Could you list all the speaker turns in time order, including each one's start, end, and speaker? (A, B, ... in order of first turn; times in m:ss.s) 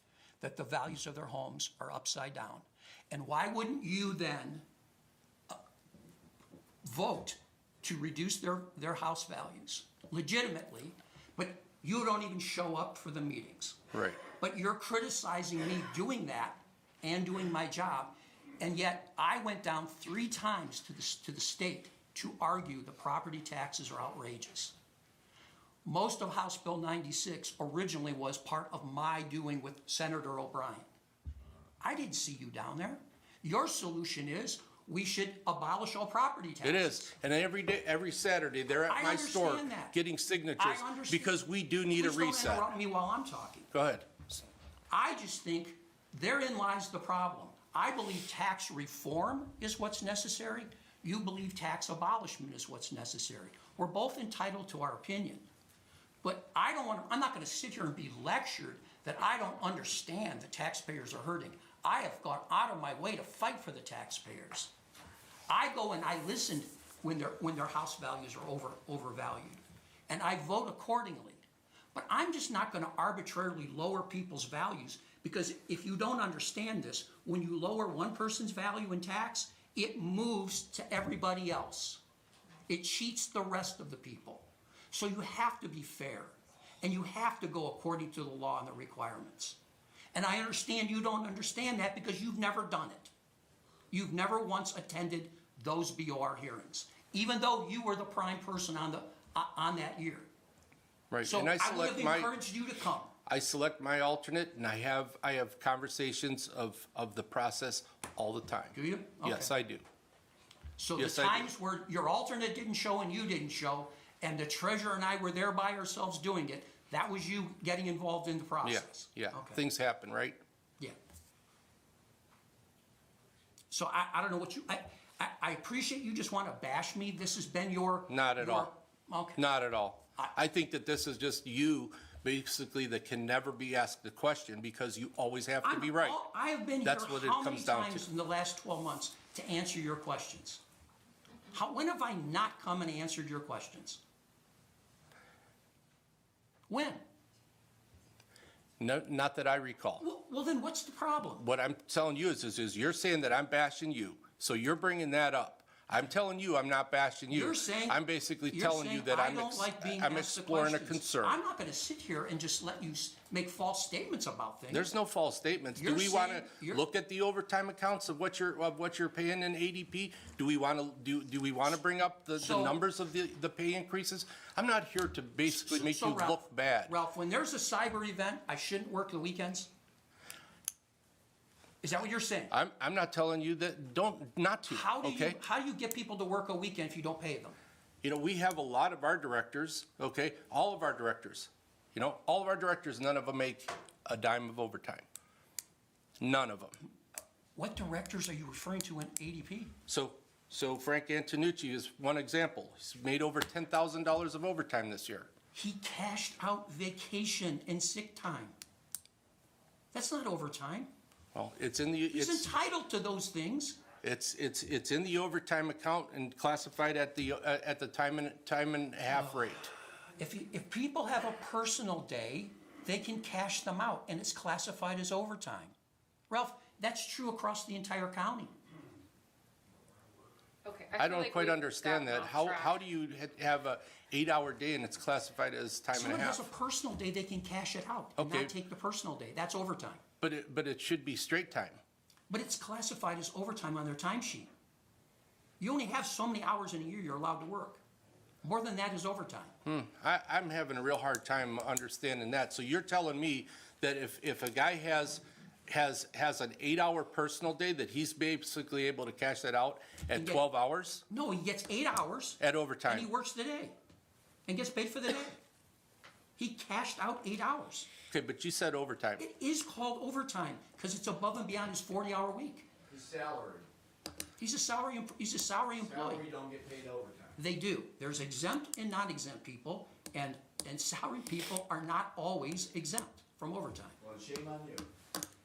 0:00.4-0:04.6 A
0:06.8-0:24.7 A
0:13.9-0:14.2 B
0:25.8-0:30.9 A
0:31.8-0:37.1 A
0:36.6-0:42.7 B
0:38.9-0:39.9 A
0:40.6-0:41.4 A
0:41.9-0:43.7 A
0:43.7-0:44.3 B
0:44.9-0:55.5 A
0:56.2-1:04.7 A
1:05.5-1:11.4 A
1:11.9-1:22.0 A
1:22.7-1:29.6 A
1:30.1-1:33.1 A
1:33.9-1:40.3 A
1:41.1-1:42.3 B
1:41.2-1:43.1 A
1:43.3-1:49.8 B
1:48.7-1:49.5 A
1:50.8-1:59.6 A
1:51.0-1:51.5 B
1:58.6-2:00.4 B
2:03.7-2:09.4 A
2:08.1-2:08.7 B
2:09.4-2:16.2 B
2:15.6-2:20.6 A
2:16.8-2:18.1 B
2:21.5-2:24.0 A
2:26.7-2:27.0 A
2:28.8-2:30.0 B
2:30.0-2:31.4 A
2:31.4-2:41.4 B
2:37.3-2:44.9 A
2:44.7-2:56.9 B
2:45.7-2:46.8 A
2:52.4-2:52.8 A
2:55.4-2:59.7 A
3:01.8-3:02.5 A
3:02.5-3:05.4 B
3:04.7-3:07.6 A
3:08.0-3:15.0 B
3:16.2-3:16.7 B
3:17.6-3:19.7 A
3:19.9-3:25.3 B
3:25.5-3:28.5 A
3:29.9-3:30.9 A
3:31.3-3:32.5 B
3:32.1-3:33.8 A
3:34.0-3:39.7 B
3:40.2-3:45.7 A
3:46.3-3:48.5 A
3:50.6-3:52.8 C
3:51.0-3:56.4 B
3:55.9-4:00.0 A
3:58.2-3:58.5 B
4:00.2-4:01.8 B
4:02.3-4:04.5 A
4:05.6-4:07.8 A
4:08.4-4:09.5 A
4:09.6-4:21.0 B
4:20.1-4:20.4 A
4:21.1-4:23.7 A
4:22.4-4:23.1 B
4:24.5-4:25.4 A
4:26.4-4:27.9 A
4:28.1-4:29.2 B
4:29.2-4:32.7 A
4:32.9-4:33.7 D
4:34.4-4:36.3 A
4:35.8-4:37.3 D
4:37.4-4:44.0 A
4:44.0-4:44.8 D